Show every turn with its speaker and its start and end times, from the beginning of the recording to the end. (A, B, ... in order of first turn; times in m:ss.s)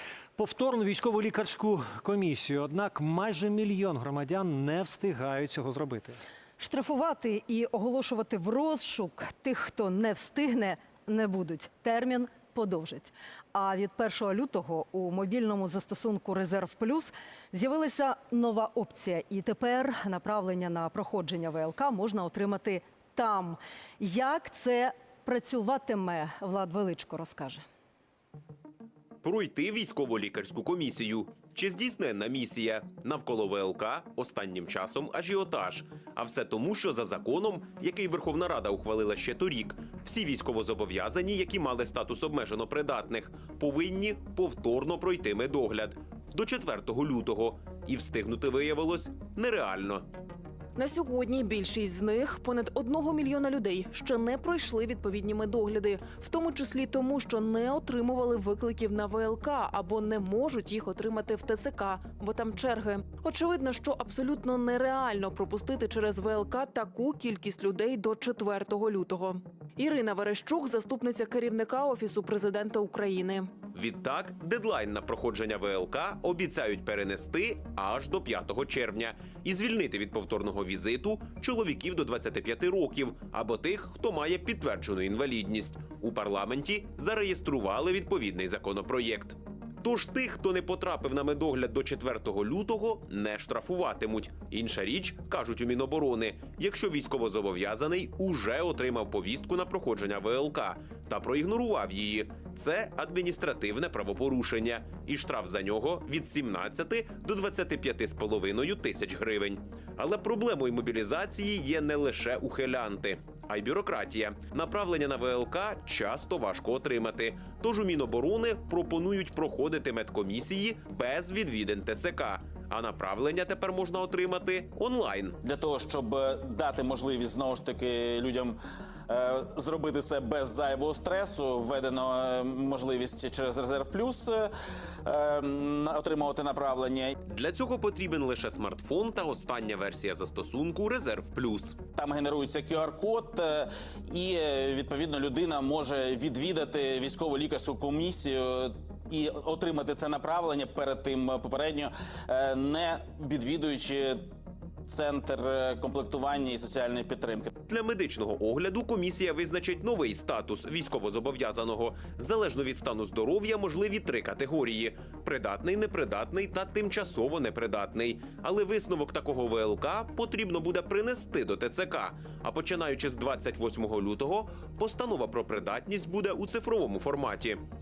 0:00.4-0:06.2 A
0:06.6-0:27.6 B
0:29.2-0:50.0 C
0:50.8-1:13.5 D
1:13.7-2:05.4 C
2:05.4-2:14.5 E
2:15.0-2:17.2 E
2:17.3-2:21.8 C
2:22.0-2:34.3 E
2:34.8-2:37.5 E
2:37.7-2:57.6 C